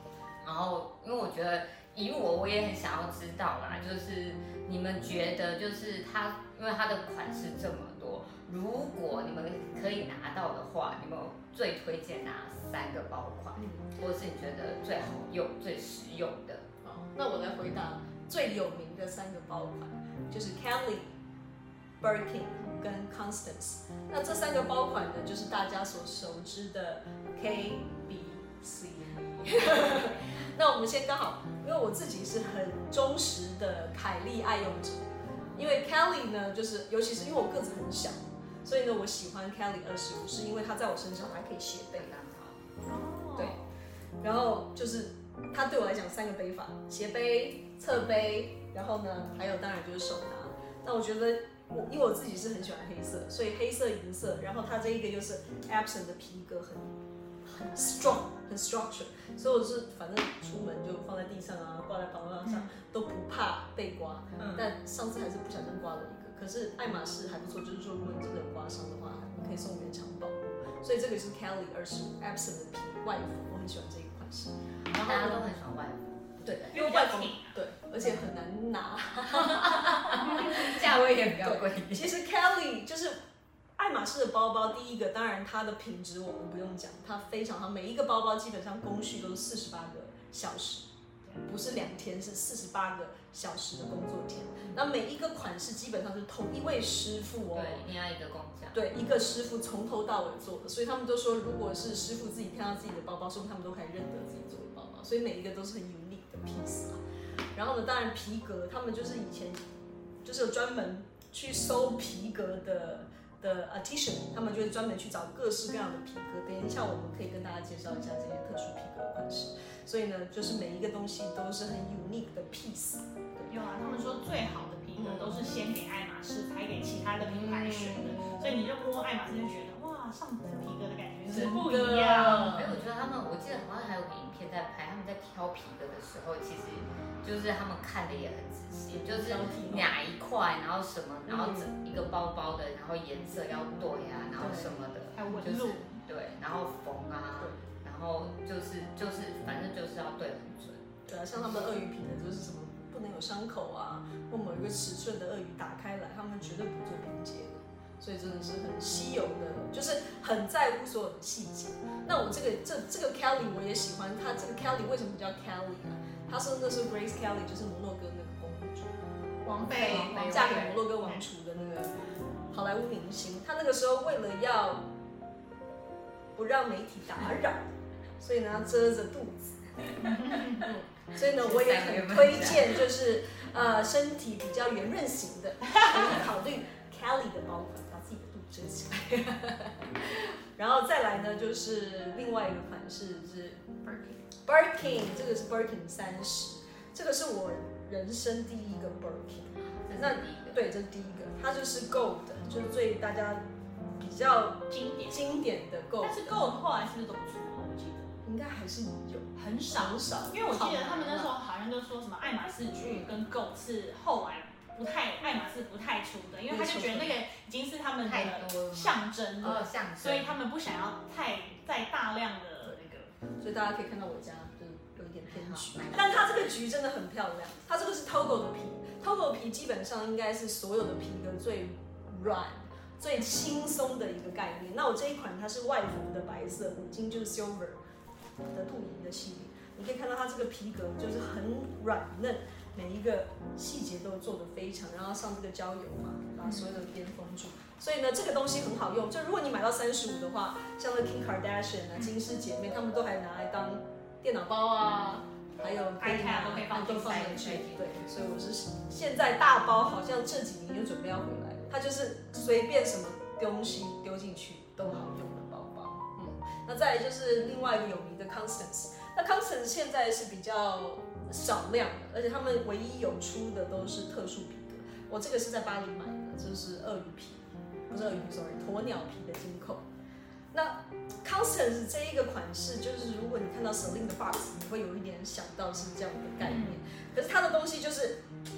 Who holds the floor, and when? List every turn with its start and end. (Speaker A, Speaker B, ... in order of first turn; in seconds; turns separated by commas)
Speaker A: 0.4-16.6, Speaker B: 13.6-13.9, Speaker B: 16.8-21.1, Speaker B: 22.0-42.1, Speaker A: 42.0-42.6, Speaker C: 42.9-43.7, Speaker B: 44.2-56.9, Speaker B: 57.4-75.5, Speaker A: 74.9-76.8, Speaker B: 76.4-83.2, Speaker C: 76.7-77.6, Speaker A: 79.3-82.1, Speaker B: 83.8-90.9, Speaker B: 91.4-97.9, Speaker A: 97.5-98.8, Speaker B: 98.7-107.0, Speaker B: 107.5-109.6, Speaker B: 110.2-123.5, Speaker C: 123.5-132.6, Speaker B: 125.0-125.4, Speaker B: 127.3-128.4, Speaker B: 131.2-132.8, Speaker A: 132.5-150.9, Speaker B: 138.9-139.9, Speaker B: 141.3-141.7, Speaker B: 144.4-144.8, Speaker C: 145.1-146.0, Speaker B: 151.1-168.9, Speaker C: 169.4-171.2, Speaker B: 169.7-174.8, Speaker A: 170.1-170.4, Speaker B: 176.3-193.7, Speaker C: 180.0-180.7, Speaker A: 181.2-182.8, Speaker C: 193.9-194.2, Speaker B: 194.4-203.4, Speaker A: 199.8-200.6, Speaker B: 204.0-206.3, Speaker C: 204.7-205.4, Speaker C: 206.0-208.2, Speaker B: 208.2-211.3, Speaker C: 209.3-223.1, Speaker B: 212.8-213.2, Speaker B: 216.5-217.2, Speaker A: 218.0-220.3, Speaker B: 223.4-237.8, Speaker A: 225.3-226.2, Speaker B: 238.5-279.8, Speaker C: 246.4-246.8, Speaker C: 256.0-257.4, Speaker A: 256.7-258.1, Speaker B: 280.5-288.2, Speaker C: 286.4-286.8